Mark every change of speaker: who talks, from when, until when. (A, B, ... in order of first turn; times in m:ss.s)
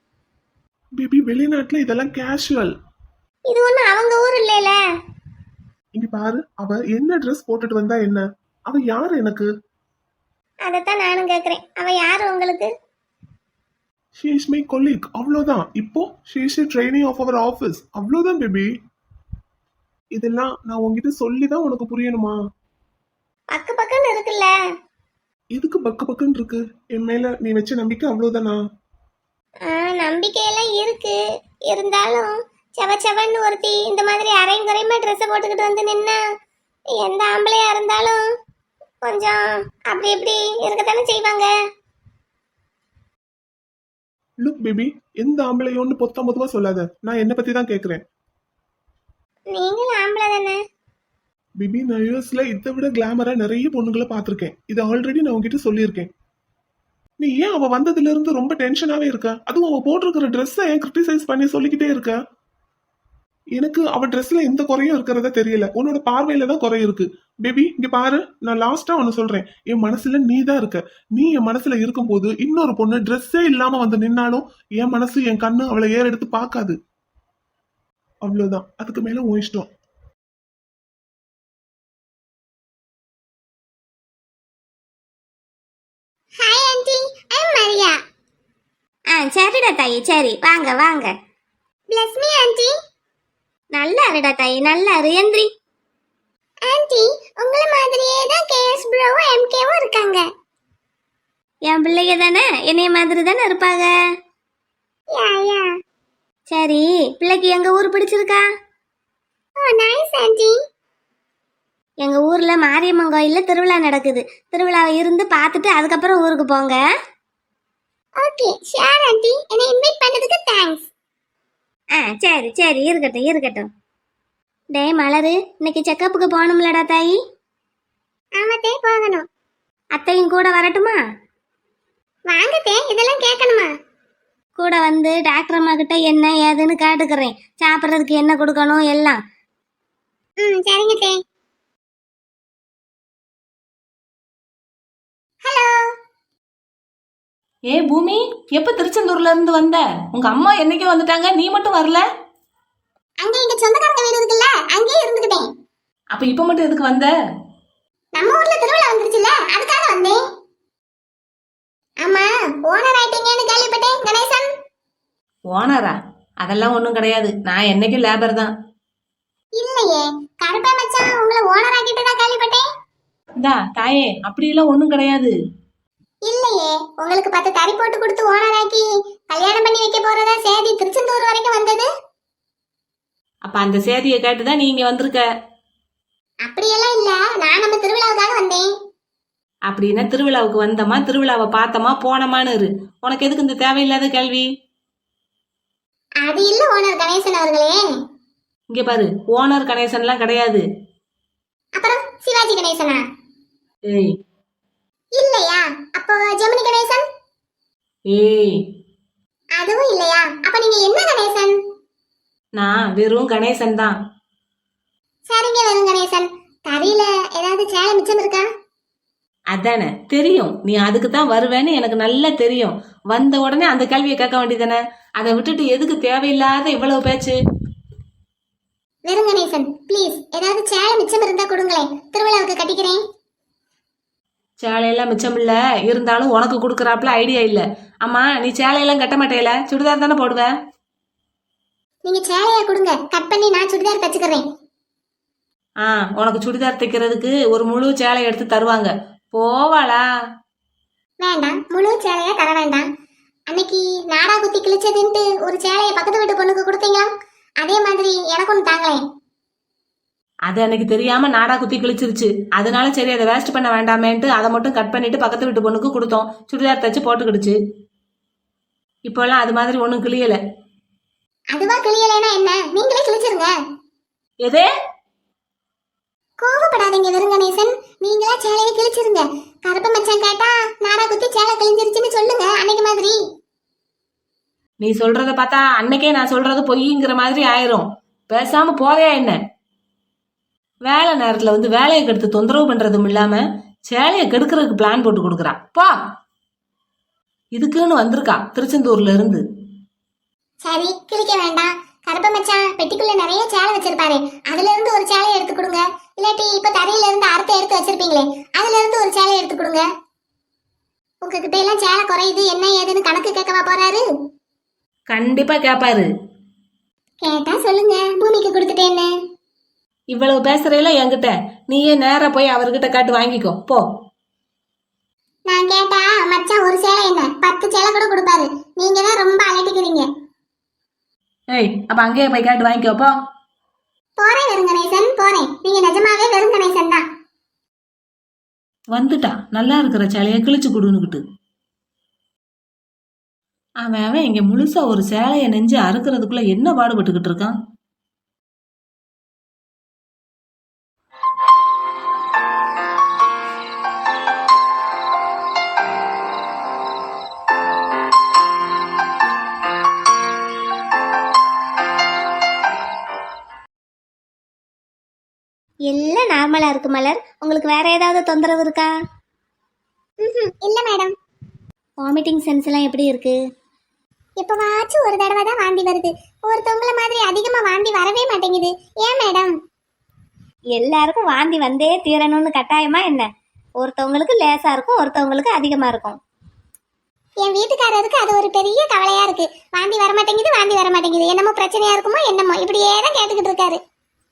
0:01.0-0:02.7 A
0:03.5-0:04.8 B
0:05.9-0:09.5 A
0:10.6-0:12.7 B
0:14.2-0:18.7 A
0:20.1-0:22.4 A
0:23.5-0:24.5 B
0:25.5-0:28.6 A
0:29.6-0:36.2 B
0:36.9-0:38.2 B
0:39.0-0:41.5 B
0:44.4-0:48.0 A
0:49.5-0:50.6 B
0:51.6-0:56.1 A
0:57.2-1:02.2 A
1:03.6-1:16.8 A
1:18.2-1:19.7 A
1:26.4-1:28.0 B
1:29.1-1:31.1 C
1:31.9-1:32.7 B
1:33.7-1:35.5 C
1:36.6-1:40.2 B
1:41.7-1:43.9 C
1:45.1-1:45.7 B
1:46.5-1:48.4 C
1:49.6-1:50.6 B
1:52.0-1:56.8 C
1:58.2-2:00.9 B
2:02.0-2:03.7 C
2:04.7-2:07.2 C
2:08.4-2:09.2 B
2:09.9-2:11.0 C
2:12.3-2:13.7 B
2:14.6-2:19.2 C
2:20.4-2:21.2 B
2:25.4-2:25.9 B
2:27.7-2:32.0 D
2:33.2-2:35.5 B
2:36.1-2:37.1 D
2:38.1-2:40.2 B
2:42.0-2:44.5 B
2:45.5-2:48.5 D
2:49.6-2:52.6 B
2:53.4-2:55.3 D
2:56.2-3:01.9 B
3:03.5-3:05.3 D
3:06.4-3:08.7 B
3:09.7-3:14.5 D
3:16.2-3:17.8 B
3:18.7-3:20.6 D
3:21.8-3:23.0 B
3:23.9-3:24.2 D
3:25.1-3:27.1 B
3:28.1-3:28.6 D
3:29.6-3:31.6 B
3:32.6-3:34.0 D
3:35.3-3:38.5 B
3:39.5-3:47.4 D
3:49.0-3:53.0 B
3:54.6-4:00.5 D
4:02.0-4:04.4 B
4:05.8-4:10.0 D
4:11.2-4:12.9 B
4:13.5-4:19.0 B
4:20.5-4:27.6 D
4:29.0-4:30.4 D
4:31.5-4:33.5 B
4:36.4-4:43.2 B
4:44.8-4:49.4 D
4:50.8-4:56.0 D
4:57.5-4:59.4 D
5:00.6-5:09.8 B
5:11.2-5:14.0 B
5:15.1-5:16.1 D
5:17.2-5:19.1 B
5:20.1-5:23.8 D
5:25.5-5:30.1 B
5:31.5-5:33.2 D
5:34.2-5:37.0 B
5:38.9-5:41.2 D
5:43.8-5:47.6 D
6:05.9-6:08.9 C
6:10.2-6:11.1 B
6:12.0-6:13.4 C
6:14.4-6:19.6 B
6:20.7-6:23.3 C
6:23.8-6:26.2 C
6:27.4-6:33.8 B